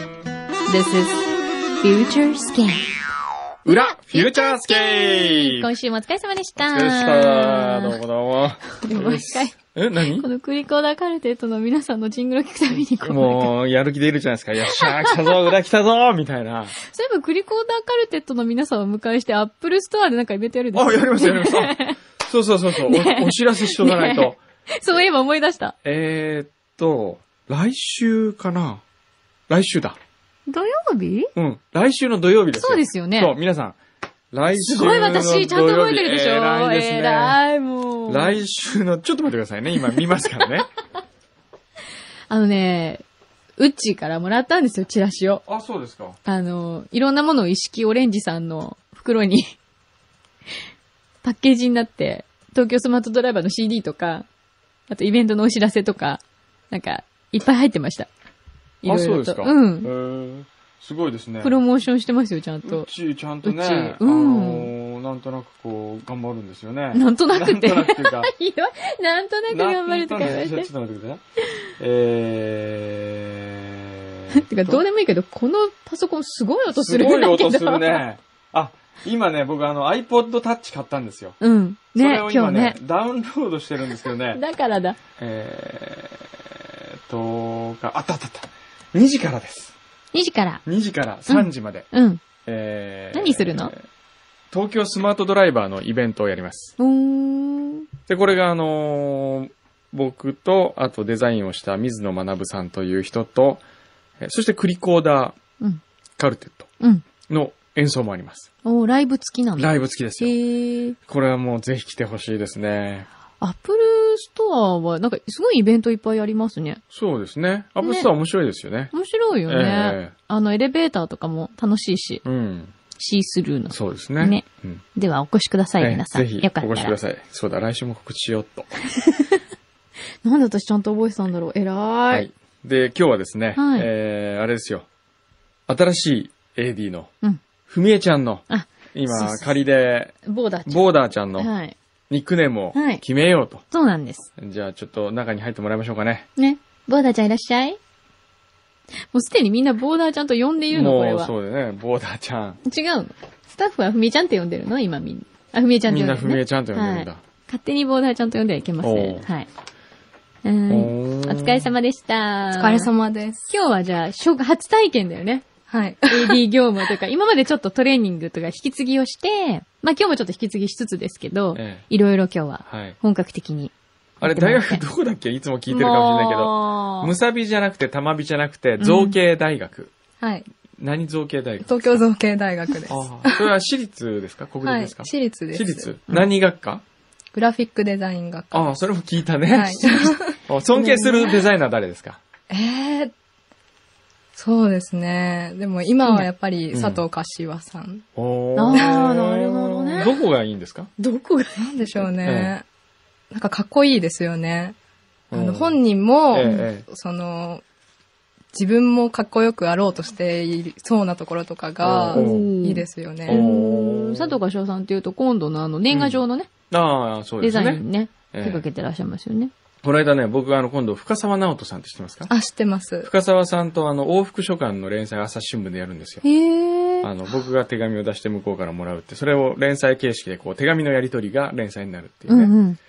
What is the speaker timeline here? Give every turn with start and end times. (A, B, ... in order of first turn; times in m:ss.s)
0:00.7-0:01.3 A
0:01.8-0:02.9 A
0:03.6-0:05.7 B
0:03.7-0:08.0 A
0:06.6-0:10.3 B
0:08.8-0:09.6 A
0:10.2-0:13.5 A
0:13.0-0:16.7 B
0:14.6-0:15.3 A
0:16.8-0:22.0 A
0:20.7-0:24.4 B
0:22.8-0:25.7 A
0:25.8-0:28.8 B
0:29.5-0:30.0 B
0:30.5-0:31.3 A
0:31.3-0:33.8 B
0:32.5-0:33.3 A
0:34.3-0:37.4 B
0:34.5-0:38.4 A
0:38.1-0:40.7 B
0:42.3-0:43.0 A
0:43.6-0:45.4 A
0:45.4-0:46.2 B
0:46.2-0:49.5 A
0:51.2-0:54.2 A
0:54.9-0:58.1 A
0:58.8-0:59.9 A
0:58.8-1:01.6 B
1:01.4-1:02.9 A
1:02.6-1:08.3 B
1:03.4-1:04.7 A
1:06.9-1:10.7 A
1:09.5-1:11.2 B
1:11.8-1:14.8 B
1:14.3-1:18.0 A
1:16.7-1:21.4 B
1:21.4-1:22.8 A
1:21.9-1:24.4 B
1:24.3-1:25.0 A
1:25.2-1:29.7 B
1:30.1-1:30.6 A
1:30.6-1:31.9 B
1:31.3-1:32.2 A
1:32.4-1:33.8 B
1:33.1-1:33.7 A
1:34.5-1:36.7 B
1:36.8-1:37.8 A
1:38.1-1:43.6 B
1:44.2-1:45.4 B
1:46.2-1:46.7 B
1:47.3-1:48.5 B
1:48.6-1:51.0 A
1:49.6-1:50.4 B
1:51.0-1:53.1 B
1:53.4-1:56.8 A
1:56.9-1:58.9 B
1:57.8-1:58.1 A
1:58.9-2:02.2 A
1:59.5-2:00.1 B
2:02.2-2:02.7 B
2:03.0-2:06.9 A
2:03.7-2:04.8 B
2:05.8-2:08.7 B
2:08.9-2:09.4 A
2:10.2-2:12.3 A
2:12.1-2:14.8 B
2:13.6-2:13.9 A
2:15.7-2:17.1 B
2:17.7-2:21.5 B
2:18.5-2:19.6 A
2:20.2-2:21.7 A
2:22.1-2:23.6 B
2:22.7-2:23.0 A
2:23.7-2:24.3 A
2:24.4-2:26.3 B
2:26.4-2:27.8 A
2:29.1-2:31.3 A
2:30.7-2:32.6 B
2:32.6-2:39.5 A
2:35.9-2:37.2 B
2:38.8-2:39.3 B
2:40.4-2:42.9 A
2:40.7-2:41.7 B
2:42.5-2:43.4 C
2:43.5-2:45.4 A
2:45.7-2:46.4 C
2:46.0-2:54.8 A
2:51.5-2:51.8 B
2:52.6-2:53.0 B
2:54.2-2:59.9 B
2:55.7-2:57.1 A
2:58.8-2:59.2 A
3:00.2-3:00.4 C
3:00.8-3:02.0 B
3:01.6-3:03.5 C
3:02.9-3:06.8 B
3:04.6-3:05.9 C
3:07.3-3:08.7 C
3:08.5-3:12.2 B
3:09.5-3:11.4 C
3:12.5-3:13.1 C
3:14.4-3:18.0 C
3:16.7-3:17.0 B
3:18.2-3:20.9 B
3:18.6-3:20.1 A
3:21.0-3:21.7 A
3:21.6-3:22.6 C
3:22.2-3:22.5 B
3:23.3-3:24.8 C
3:25.3-3:26.8 B
3:25.3-3:27.6 C
3:26.4-3:26.7 A
3:28.5-3:33.4 C
3:31.8-3:32.5 B
3:32.1-3:36.5 A
3:33.3-3:34.4 B
3:35.9-3:36.2 B
3:36.7-3:38.6 B
3:37.4-3:39.5 A
3:39.8-3:42.3 B
3:42.3-3:43.1 C
3:43.0-3:46.2 B
3:46.2-3:47.1 A
3:47.0-3:52.5 B
3:52.3-3:52.8 A